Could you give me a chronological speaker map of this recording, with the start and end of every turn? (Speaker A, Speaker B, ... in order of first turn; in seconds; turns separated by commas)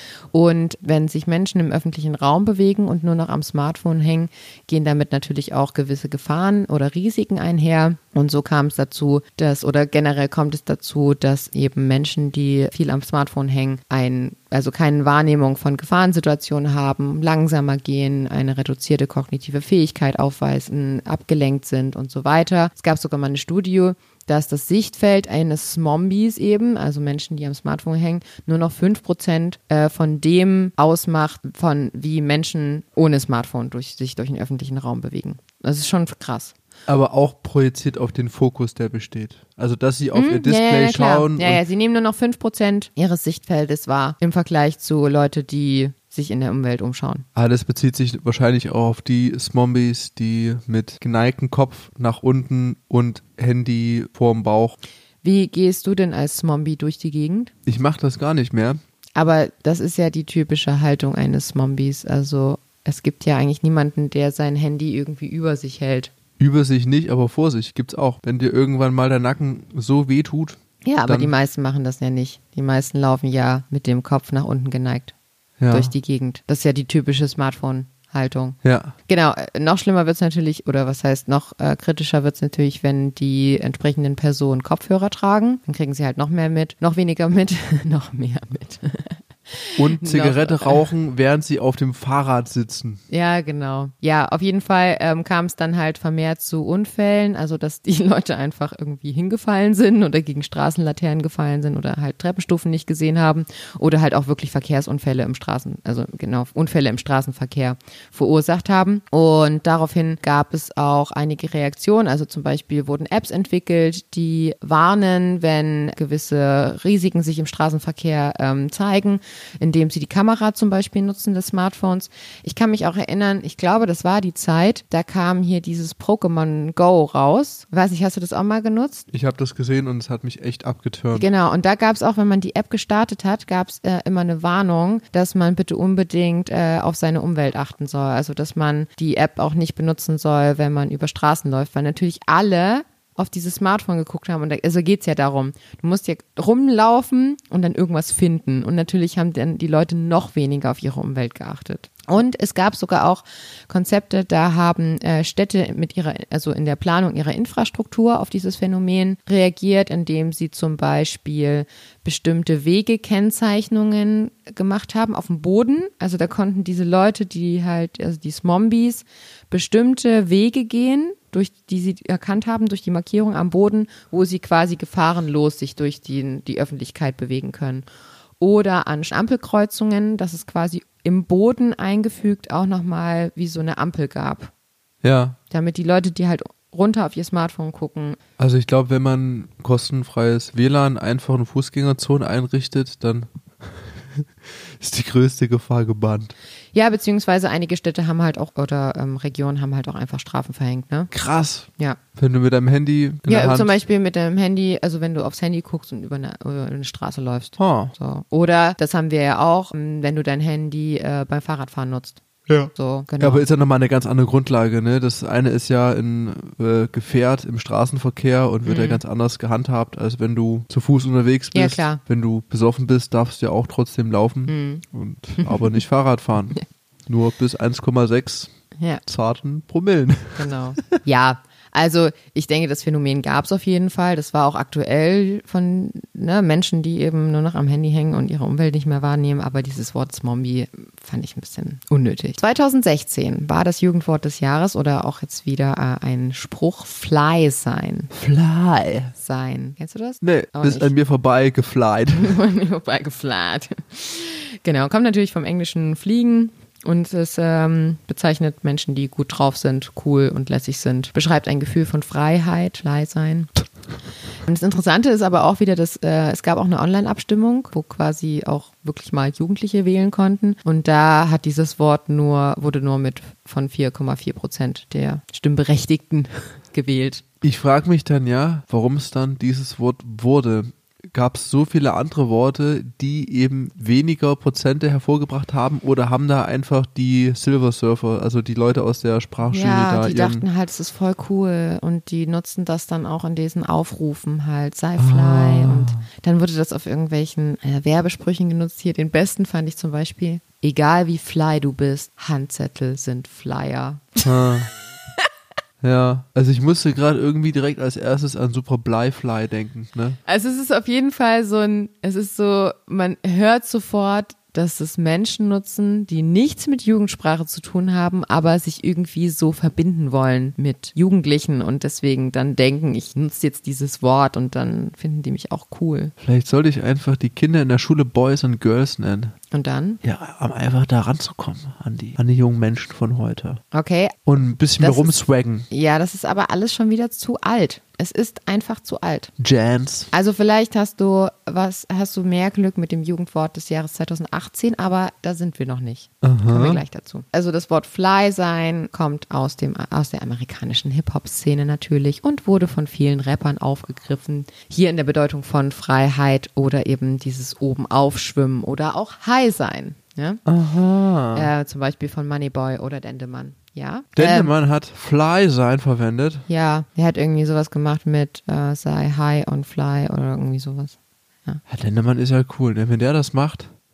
Speaker A: 0.3-36.5, Speaker B: 36.9-41.6, Speaker A: 40.1-47.3, Speaker B: 47.4-54.8, Speaker A: 55.2-57.5, Speaker B: 57.7-58.8, Speaker A: 59.2-66.1, Speaker B: 66.4-71.3, Speaker A: 70.8-75.1, Speaker B: 75.6-75.9, Speaker A: 75.7-90.9, Speaker B: 78.6-78.9, Speaker B: 89.8-93.0, Speaker A: 93.1-129.1, Speaker B: 129.1-131.3, Speaker A: 131.1-177.9, Speaker A: 178.4-184.5, Speaker B: 185.0-185.4, Speaker A: 185.5-188.2, Speaker B: 188.4-196.3, Speaker A: 196.7-201.1, Speaker B: 201.1-203.8, Speaker A: 203.3-212.2, Speaker B: 207.6-207.9, Speaker B: 212.5-228.5, Speaker A: 212.8-213.4, Speaker A: 218.7-219.0, Speaker A: 221.5-222.0, Speaker A: 224.5-224.8, Speaker A: 225.4-225.8, Speaker A: 228.8-229.0, Speaker B: 229.1-230.5, Speaker A: 230.4-248.1, Speaker B: 248.1-249.1, Speaker A: 249.2-250.9, Speaker B: 250.2-252.4, Speaker A: 252.2-263.5, Speaker A: 264.4-277.2, Speaker B: 277.4-290.4, Speaker A: 289.4-304.5, Speaker B: 295.0-296.1, Speaker B: 304.2-304.7, Speaker B: 305.8-310.2, Speaker A: 310.3-326.1, Speaker B: 326.2-329.3, Speaker A: 329.5-330.0, Speaker B: 330.0-333.6, Speaker A: 333.7-334.2, Speaker B: 334.3-335.7, Speaker A: 334.8-335.2, Speaker A: 335.7-339.3, Speaker B: 339.4-340.1, Speaker A: 340.1-360.4, Speaker B: 346.2-346.8, Speaker B: 360.4-361.5, Speaker A: 361.3-364.5, Speaker B: 364.2-366.4, Speaker A: 366.5-371.6, Speaker B: 371.7-373.7